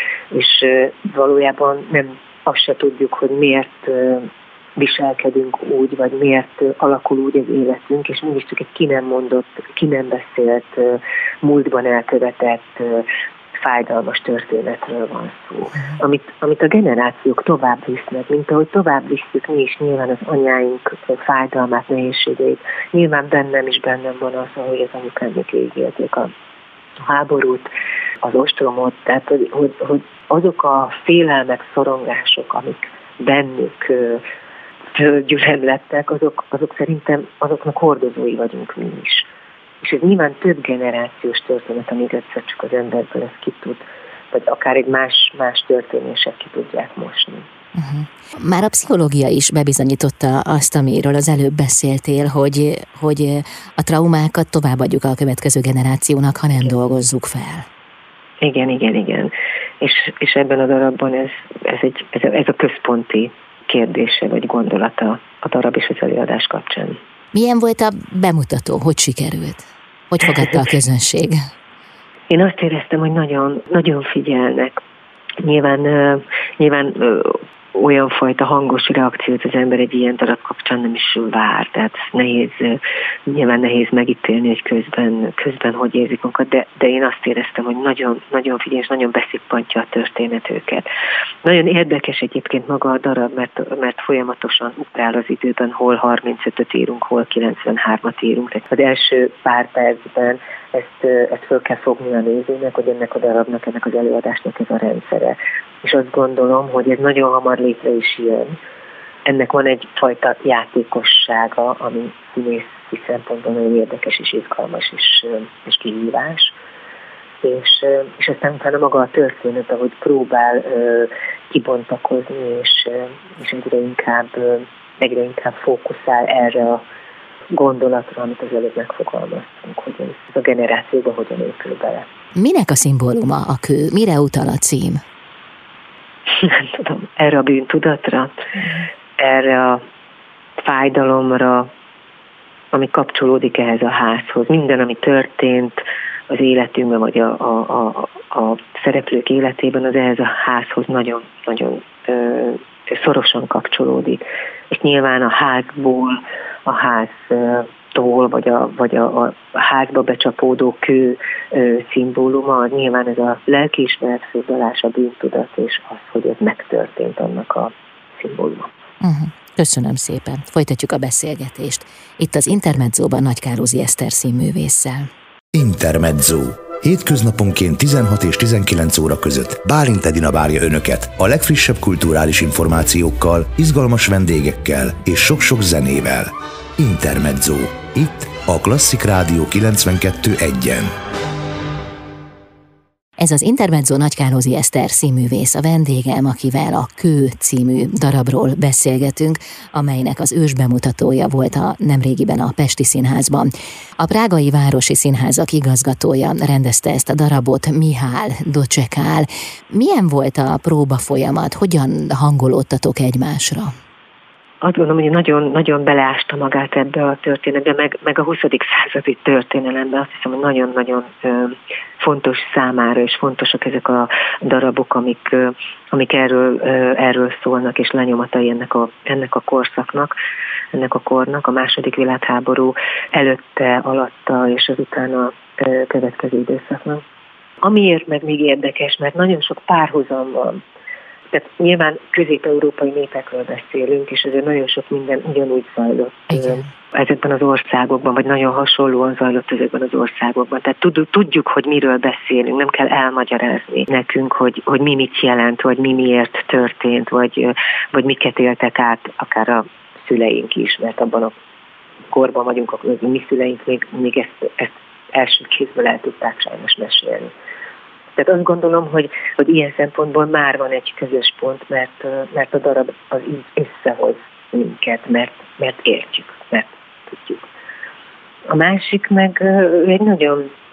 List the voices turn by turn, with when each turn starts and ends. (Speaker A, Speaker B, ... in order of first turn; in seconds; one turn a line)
Speaker A: 0.3-13.1
Speaker A: 13.6-26.3
Speaker A: 27.0-34.2
Speaker A: 34.9-39.3
Speaker A: 39.8-47.5
Speaker B: 47.7-57.7
Speaker A: 58.4-67.0
Speaker B: 67.3-71.4
Speaker A: 72.3-74.8
Speaker A: 75.4-90.9
Speaker A: 91.4-108.6
Speaker A: 109.2-116.5
Speaker A: 117.4-126.8
Speaker A: 127.5-132.1
Speaker B: 132.3-135.0
Speaker A: 136.3-138.5
Speaker B: 138.6-138.9
Speaker A: 139.2-139.8
Speaker A: 140.6-141.7
Speaker A: 142.7-168.7
Speaker B: 169.0-175.1
Speaker C: 175.5-190.9
Speaker B: 193.2-213.7
Speaker A: 214.6-230.1
Speaker A: 230.7-237.0
Speaker A: 237.6-240.6
Speaker A: 241.3-261.3
Speaker B: 246.3-246.7
Speaker A: 262.1-267.3
Speaker A: 268.1-277.4
Speaker A: 278.5-280.5